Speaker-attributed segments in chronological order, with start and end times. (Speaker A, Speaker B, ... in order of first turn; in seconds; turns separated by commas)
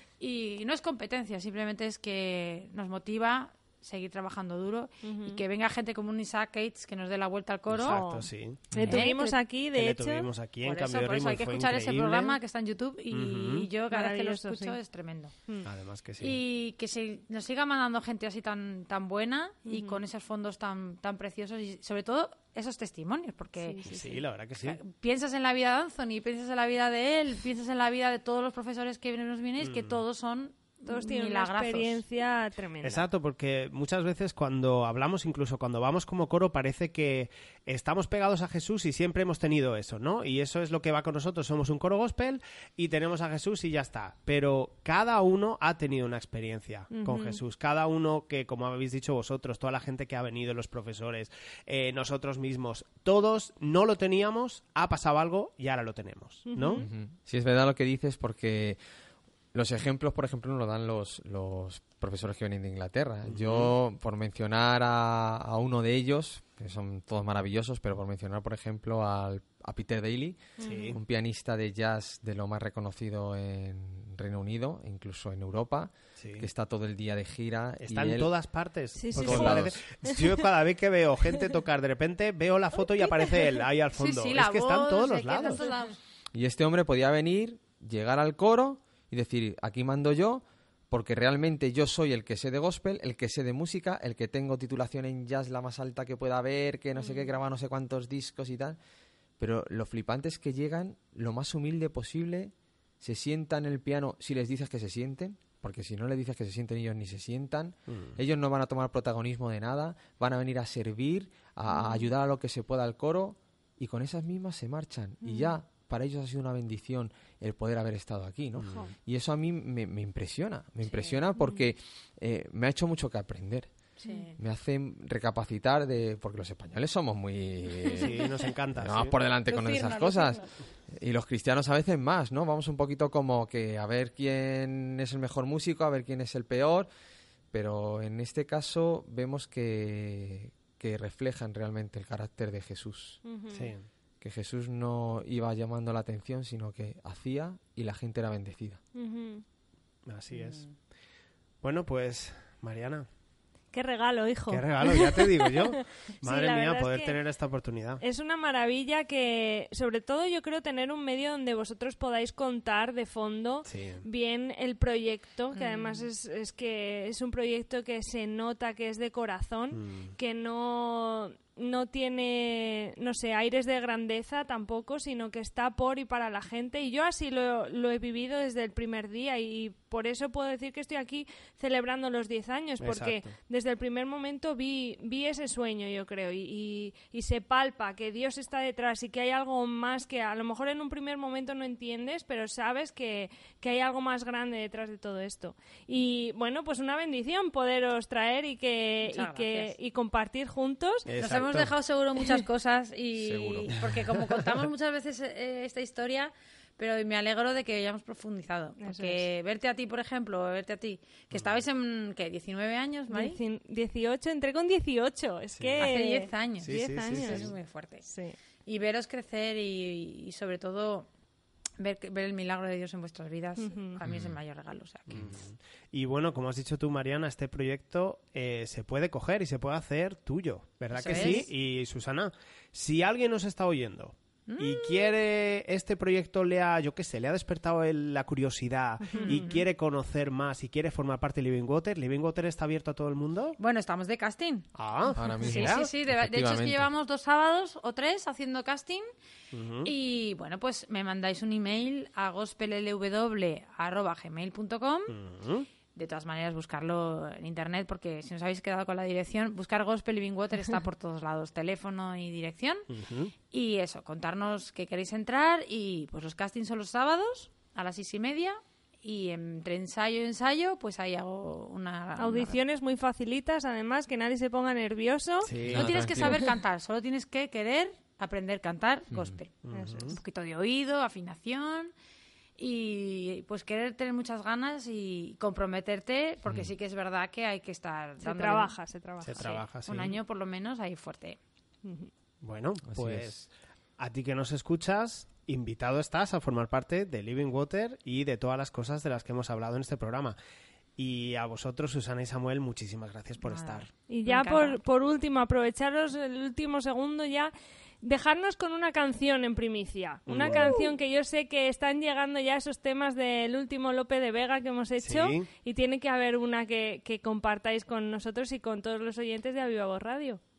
Speaker A: 0.2-8.0, Speaker B: 5.0-5.4, Speaker C: 7.7-9.1, Speaker B: 7.9-10.3, Speaker A: 8.8-9.4, Speaker C: 9.7-12.4, Speaker A: 10.6-15.3, Speaker C: 13.1-13.7, Speaker B: 13.9-14.8, Speaker C: 15.7-16.4, Speaker A: 16.2-23.8, Speaker B: 19.7-20.0, Speaker B: 23.6-24.2, Speaker C: 23.9-24.8, Speaker A: 24.6-32.0, Speaker C: 29.6-30.0, Speaker B: 30.9-33.1, Speaker C: 32.8-56.9, Speaker B: 46.9-47.4, Speaker B: 56.5-56.9, Speaker D: 56.8-58.8, Speaker D: 59.5-78.3, Speaker C: 63.3-63.7, Speaker B: 70.6-71.0, Speaker C: 70.6-71.0, Speaker C: 76.2-76.5, Speaker C: 77.8-85.7, Speaker B: 79.0-80.5, Speaker D: 79.2-79.8, Speaker A: 83.9-86.0, Speaker D: 86.3-98.8, Speaker B: 97.0-97.3, Speaker D: 99.4-123.7, Speaker C: 107.9-108.2, Speaker B: 111.7-112.1, Speaker B: 115.2-115.5, Speaker C: 118.6-118.9, Speaker A: 120.9-121.2, Speaker B: 121.4-121.7, Speaker A: 124.0-124.4, Speaker D: 124.4-128.2, Speaker C: 128.0-129.1, Speaker D: 128.8-136.9, Speaker A: 129.5-130.5, Speaker D: 137.5-143.2, Speaker B: 143.2-143.7, Speaker C: 143.5-143.9, Speaker D: 144.2-148.8, Speaker B: 149.0-149.4, Speaker C: 150.1-150.7, Speaker A: 150.3-150.7, Speaker C: 151.6-153.1, Speaker B: 153.7-157.2, Speaker C: 154.5-158.0, Speaker B: 158.0-201.1, Speaker C: 163.7-164.1, Speaker A: 165.5-166.1, Speaker C: 169.7-170.2, Speaker C: 182.8-183.3, Speaker A: 199.1-199.7, Speaker C: 201.1-201.7, Speaker A: 201.2-213.4, Speaker D: 203.2-203.7, Speaker B: 208.8-209.2, Speaker C: 211.3-211.6, Speaker B: 213.1-217.5, Speaker C: 215.5-216.0, Speaker A: 215.8-218.1, Speaker C: 216.6-217.6, Speaker B: 218.1-218.4, Speaker A: 218.7-221.1, Speaker A: 221.8-225.4, Speaker B: 223.6-224.0, Speaker C: 224.0-224.4, Speaker C: 225.1-243.6, Speaker A: 230.9-231.5, Speaker B: 231.1-231.4, Speaker A: 234.5-235.1, Speaker B: 239.1-239.4, Speaker A: 239.1-239.6, Speaker A: 243.6-244.7, Speaker C: 244.8-245.9, Speaker D: 245.2-246.9, Speaker A: 245.4-249.1, Speaker C: 249.5-249.9, Speaker A: 249.8-255.1, Speaker C: 255.1-255.7, Speaker A: 255.9-262.9, Speaker C: 262.9-263.3, Speaker A: 263.5-272.6, Speaker B: 272.2-275.5, Speaker C: 275.4-275.9, Speaker D: 275.6-276.4, Speaker A: 275.7-281.9, Speaker C: 279.6-280.2, Speaker B: 279.7-280.1, Speaker A: 282.6-288.7, Speaker B: 288.2-289.6, Speaker C: 289.2-290.2, Speaker A: 289.4-291.4, Speaker B: 291.9-292.1, Speaker C: 292.4-300.4, Speaker D: 292.9-293.4, Speaker C: 301.0-303.9, Speaker A: 303.4-304.8, Speaker B: 304.1-307.5, Speaker B: 308.0-320.4, Speaker C: 310.3-310.8, Speaker A: 310.5-310.9, Speaker C: 315.0-315.5